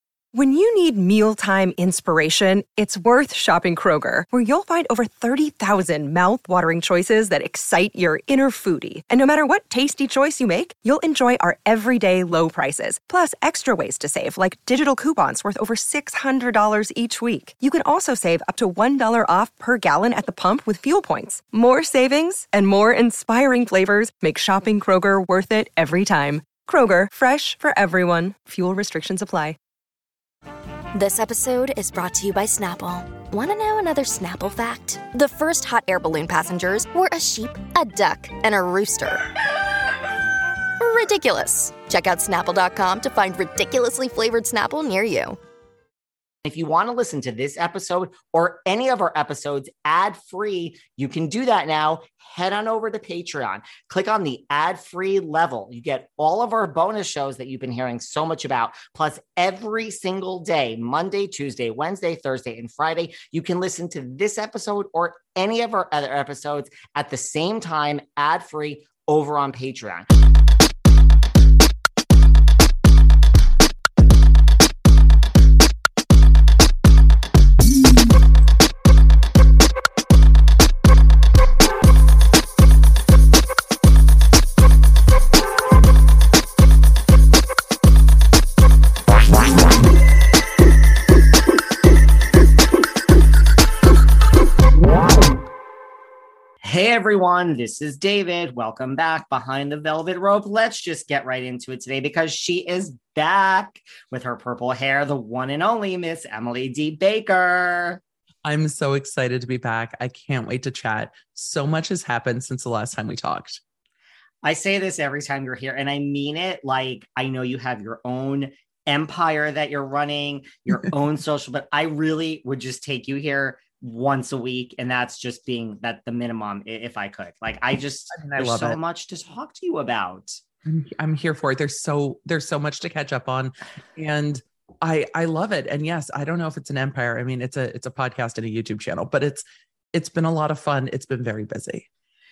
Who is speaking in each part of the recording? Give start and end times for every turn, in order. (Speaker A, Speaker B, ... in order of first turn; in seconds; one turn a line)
Speaker A: 0.3-29.6
Speaker B: 30.9-39.3
Speaker B: 40.8-45.4
Speaker C: 46.5-70.1
Speaker C: 96.6-108.0
Speaker D: 108.5-113.6
Speaker C: 114.4-130.4
Speaker D: 128.1-128.8
Speaker D: 130.7-141.9